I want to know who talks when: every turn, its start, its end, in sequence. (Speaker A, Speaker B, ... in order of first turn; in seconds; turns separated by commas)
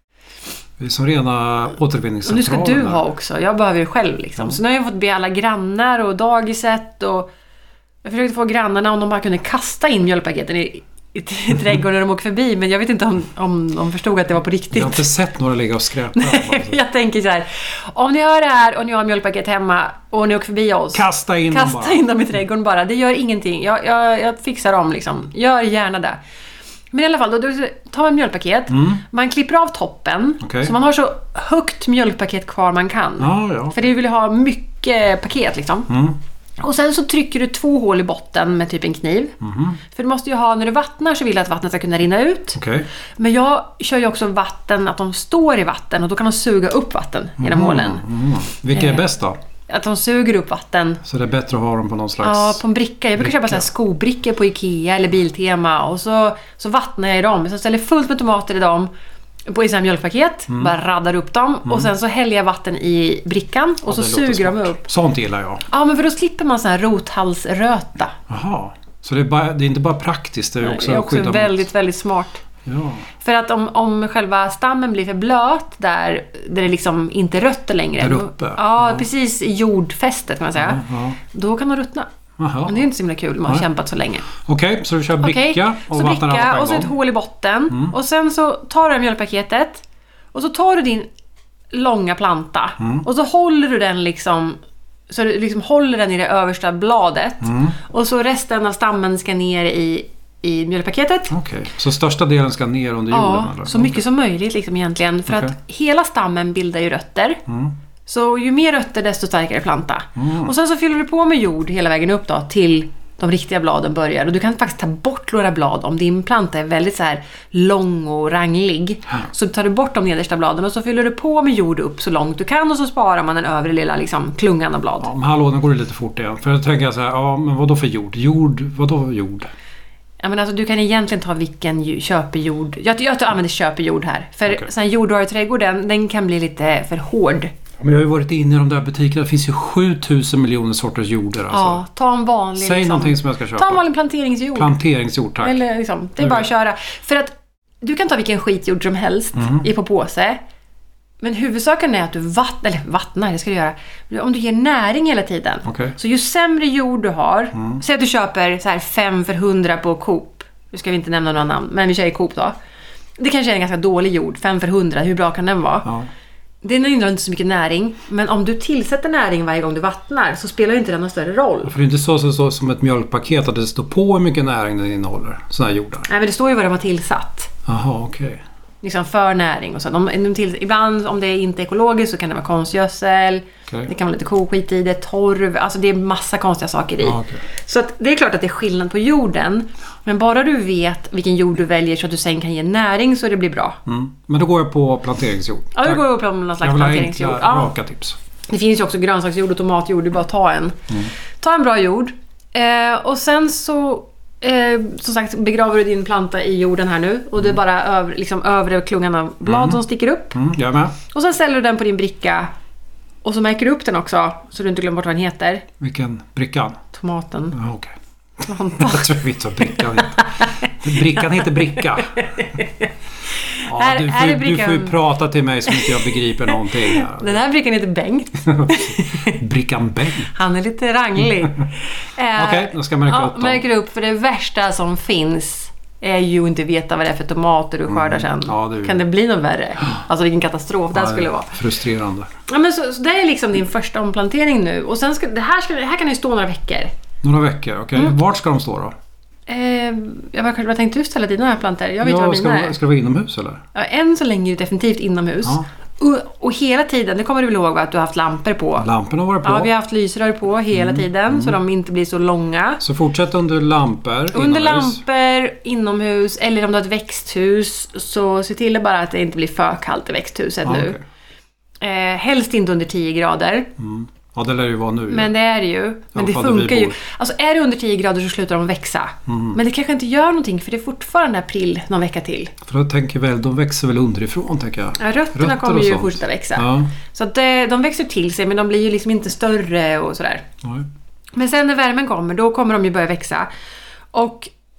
Speaker A: 0.8-3.0, Speaker B: 2.2-7.3, Speaker B: 8.0-15.1, Speaker A: 14.7-16.8, Speaker B: 16.1-26.2, Speaker A: 20.9-22.0, Speaker B: 26.9-35.9, Speaker A: 28.7-29.0, Speaker A: 30.4-30.7, Speaker A: 33.2-33.9, Speaker A: 35.9-36.2, Speaker B: 36.6-39.4, Speaker A: 39.4-39.8, Speaker B: 39.9-42.6, Speaker A: 42.5-42.9, Speaker B: 43.2-48.0, Speaker A: 47.4-49.4, Speaker B: 48.7-49.1, Speaker B: 49.7-51.0, Speaker A: 51.0-52.6, Speaker B: 52.2-58.9, Speaker A: 53.2-53.7, Speaker B: 59.5-64.8, Speaker A: 60.5-60.7, Speaker A: 63.9-65.7, Speaker B: 65.7-68.2, Speaker A: 68.3-71.7, Speaker B: 70.6-72.4, Speaker A: 72.7-73.1, Speaker B: 73.2-82.1, Speaker A: 78.0-79.1, Speaker A: 80.6-81.2, Speaker A: 82.4-82.8, Speaker B: 82.7-84.3, Speaker A: 84.4-86.9, Speaker B: 85.2-91.1, Speaker B: 91.7-94.6, Speaker A: 92.8-93.0, Speaker B: 95.1-101.3, Speaker A: 97.4-97.8, Speaker A: 101.3-104.0, Speaker B: 103.1-107.4, Speaker A: 105.3-105.5, Speaker A: 107.5-107.8, Speaker B: 108.1-125.1, Speaker A: 110.2-110.5, Speaker A: 125.0-129.5, Speaker B: 130.2-137.5, Speaker A: 137.8-141.8, Speaker B: 141.5-144.8, Speaker A: 142.6-143.8, Speaker A: 144.6-145.6, Speaker B: 145.4-150.4, Speaker A: 146.2-146.4, Speaker A: 149.3-149.7, Speaker B: 151.2-162.6, Speaker A: 155.7-155.9, Speaker A: 157.6-157.8, Speaker B: 163.2-165.9, Speaker B: 166.6-171.7, Speaker A: 171.6-176.1, Speaker B: 176.1-177.5, Speaker A: 177.7-178.4, Speaker B: 178.8-193.8, Speaker A: 187.0-187.4, Speaker A: 193.9-198.2, Speaker B: 195.8-197.7, Speaker B: 198.5-200.8, Speaker B: 201.4-210.4, Speaker A: 209.5-209.8, Speaker A: 210.3-211.0, Speaker B: 211.1-212.5, Speaker B: 213.2-215.7, Speaker A: 215.8-216.8, Speaker B: 216.9-217.6, Speaker A: 217.5-217.9, Speaker B: 218.4-219.1, Speaker A: 218.8-222.2, Speaker B: 219.8-220.5, Speaker B: 221.0-221.4, Speaker B: 222.0-222.9, Speaker B: 223.5-225.0, Speaker A: 223.7-227.4, Speaker B: 225.7-229.4, Speaker A: 228.5-230.3, Speaker B: 230.3-241.6, Speaker A: 232.3-233.7, Speaker A: 237.9-239.0, Speaker A: 240.9-242.3, Speaker B: 242.5-246.9, Speaker A: 247.2-248.9, Speaker B: 249.5-252.8, Speaker A: 252.0-253.6, Speaker B: 253.7-258.9, Speaker A: 258.8-259.7, Speaker B: 259.4-262.8, Speaker A: 260.7-261.6, Speaker A: 262.8-265.0, Speaker B: 264.3-271.0, Speaker A: 270.6-271.0, Speaker B: 271.8-273.7, Speaker A: 273.8-275.3, Speaker B: 275.1-282.5, Speaker A: 276.1-277.0, Speaker A: 279.3-279.6, Speaker A: 282.7-286.9, Speaker B: 285.0-290.4, Speaker B: 291.4-293.5, Speaker B: 294.1-294.5